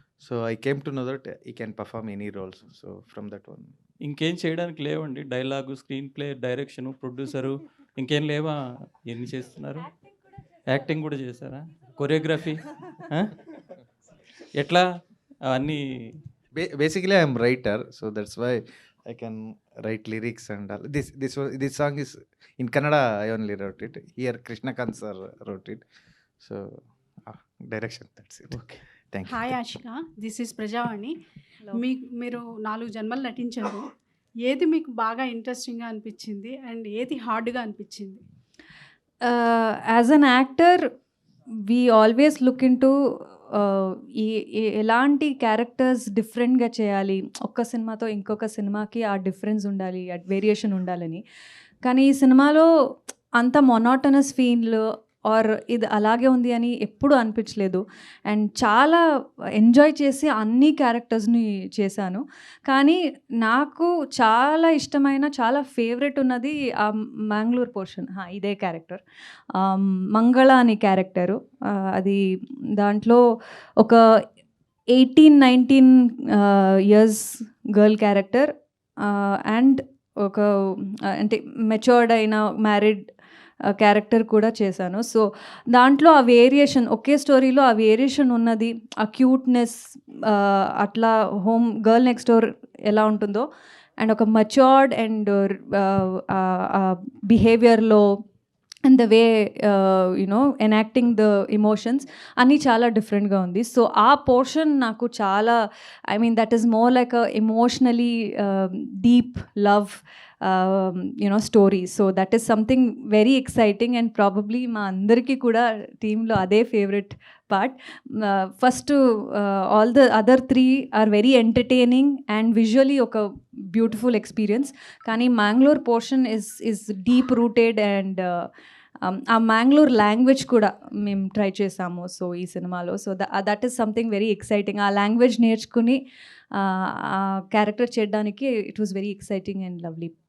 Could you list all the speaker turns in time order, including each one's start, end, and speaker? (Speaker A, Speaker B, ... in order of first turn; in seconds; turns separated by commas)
Speaker A: 0.2-3.7, Speaker B: 4.0-9.9, Speaker B: 10.7-13.3, Speaker B: 14.6-14.8, Speaker B: 15.5-16.2, Speaker A: 16.5-25.8, Speaker A: 26.4-29.5, Speaker B: 28.5-28.8, Speaker C: 29.2-31.1, Speaker C: 31.7-33.9, Speaker C: 34.4-38.2, Speaker D: 39.2-40.8, Speaker D: 41.7-42.9, Speaker D: 43.5-51.2, Speaker D: 51.9-52.6, Speaker D: 53.4-59.0, Speaker D: 59.6-69.0, Speaker D: 69.5-72.2, Speaker D: 72.8-73.2, Speaker D: 75.0-78.5, Speaker D: 79.0-83.0, Speaker D: 83.7-93.4, Speaker D: 94.0-98.1, Speaker D: 98.8-105.6, Speaker D: 106.1-123.2, Speaker D: 123.7-128.5, Speaker D: 129.0-136.0, Speaker D: 136.5-140.1